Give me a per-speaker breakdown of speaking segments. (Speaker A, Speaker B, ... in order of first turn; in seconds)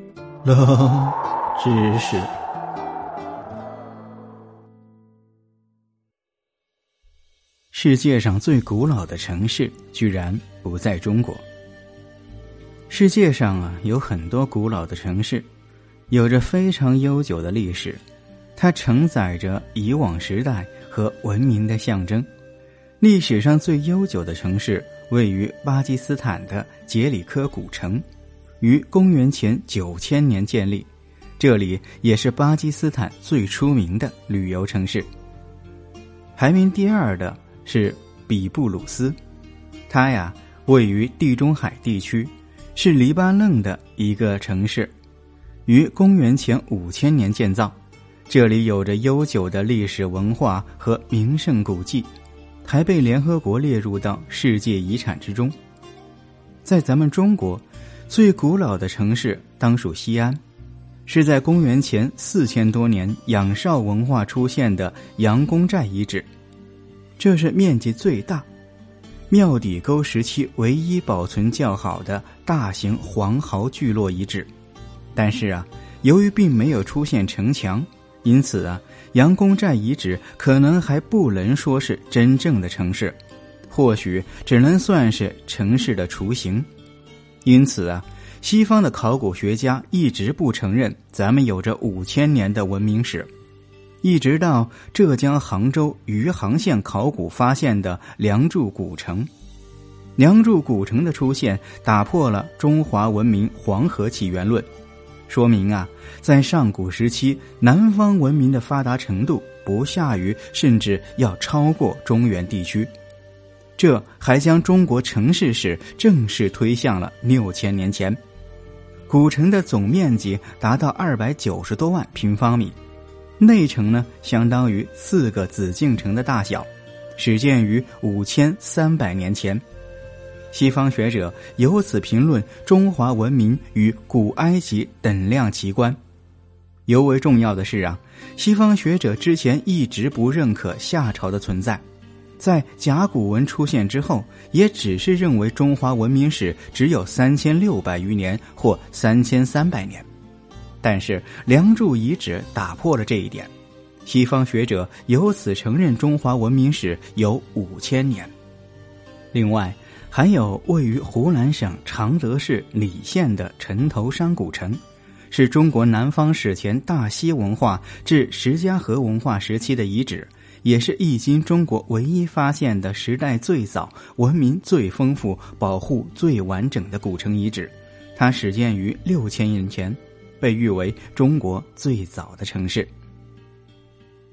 Speaker A: 0.4-2.3, 7.7-11.4, 12.9-15.4, 16.1-18.0, 18.6-22.3, 23.0-28.0, 28.6-30.9, 31.4-35.1, 36.4-39.1, 39.9-44.9, 45.6-47.7, 48.3-52.1, 52.6-55.5, 56.6-60.4, 61.0-66.3, 67.2-68.5, 69.3-74.5, 75.1-83.2, 83.7-86.7, 87.4-93.3, 94.0-99.3, 100.2-104.7, 105.3-112.9, 113.8-118.2, 119.1-122.8, 123.4-129.6, 130.5-136.0, 136.8-141.8, 142.4-150.1, 150.8-153.5, 154.0-158.3, 159.3-164.8, 165.3-182.9